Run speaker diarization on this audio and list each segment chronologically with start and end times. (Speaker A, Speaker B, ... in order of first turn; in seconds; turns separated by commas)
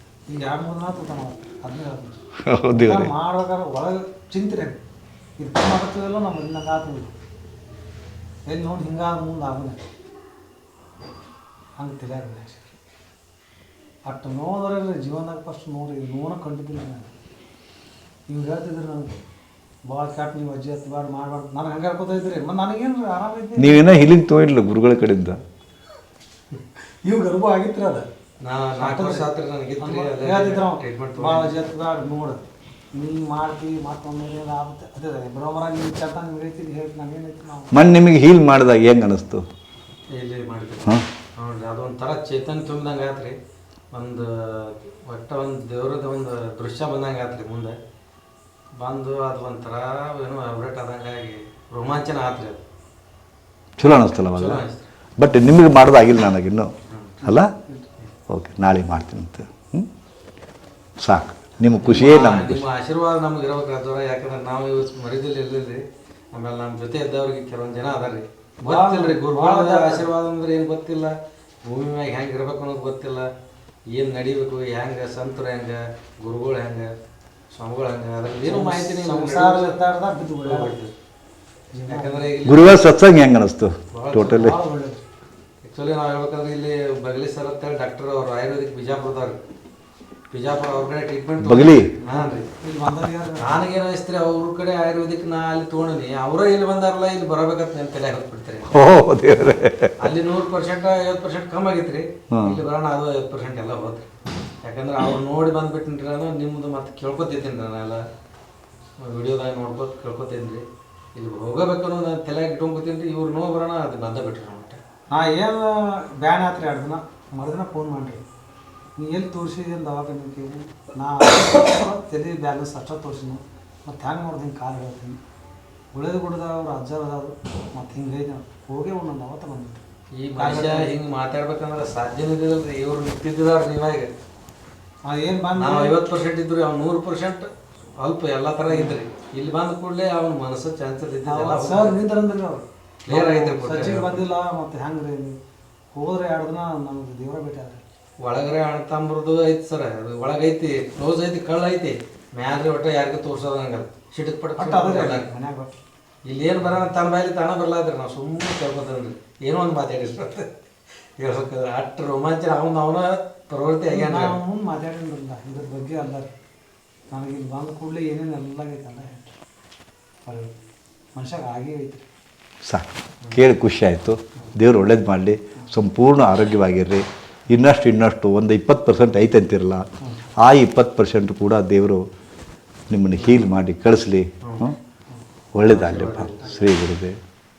Speaker A: 0.3-2.2, Speaker B: 2.4-3.1, Speaker A: 2.7-4.8, Speaker A: 5.4-7.1, Speaker A: 8.5-9.8, Speaker A: 11.8-12.8, Speaker A: 14.0-17.1, Speaker A: 18.3-19.1, Speaker A: 19.9-23.8, Speaker B: 23.6-25.4, Speaker A: 27.0-28.0, Speaker C: 28.4-31.5, Speaker A: 28.8-29.3, Speaker A: 29.8-32.4, Speaker A: 32.9-38.0, Speaker B: 37.7-39.4, Speaker C: 40.1-43.4, Speaker C: 43.9-47.8, Speaker C: 48.8-52.6, Speaker B: 53.8-54.6, Speaker C: 54.3-54.8, Speaker B: 55.2-57.5, Speaker C: 56.9-57.2, Speaker A: 57.3-57.9, Speaker B: 58.3-59.9, Speaker B: 61.0-62.6, Speaker C: 61.8-71.1, Speaker A: 68.6-70.1, Speaker C: 71.6-73.3, Speaker C: 73.9-76.9, Speaker C: 77.5-79.8, Speaker A: 78.4-80.7, Speaker C: 80.4-80.9, Speaker A: 81.7-82.3, Speaker C: 81.9-82.8, Speaker B: 82.4-84.5, Speaker C: 83.9-84.5, Speaker A: 84.2-85.0, Speaker C: 85.6-89.4, Speaker C: 90.3-92.5, Speaker B: 91.4-91.9, Speaker A: 92.0-93.6, Speaker C: 93.4-98.7, Speaker B: 98.7-99.9, Speaker C: 100.0-104.1, Speaker B: 102.3-102.6, Speaker C: 104.6-108.0, Speaker C: 109.0-114.8, Speaker A: 115.1-118.2, Speaker A: 119.0-125.2, Speaker A: 125.9-129.8, Speaker C: 130.2-134.1, Speaker A: 130.3-130.9, Speaker A: 135.0-135.9, Speaker C: 135.6-137.5, Speaker C: 138.0-142.0, Speaker A: 138.7-139.0, Speaker A: 141.2-145.3, Speaker C: 143.1-144.2, Speaker A: 145.9-147.8, Speaker C: 148.2-155.3, Speaker A: 154.6-155.7, Speaker C: 156.3-160.5, Speaker C: 161.2-164.3, Speaker A: 163.9-166.3, Speaker A: 167.1-169.3, Speaker A: 170.2-170.5, Speaker A: 171.1-172.0, Speaker B: 172.6-179.8, Speaker B: 180.4-182.0, Speaker B: 182.9-184.8, Speaker C: 184.4-184.7, Speaker B: 185.5-187.1, Speaker C: 185.7-186.7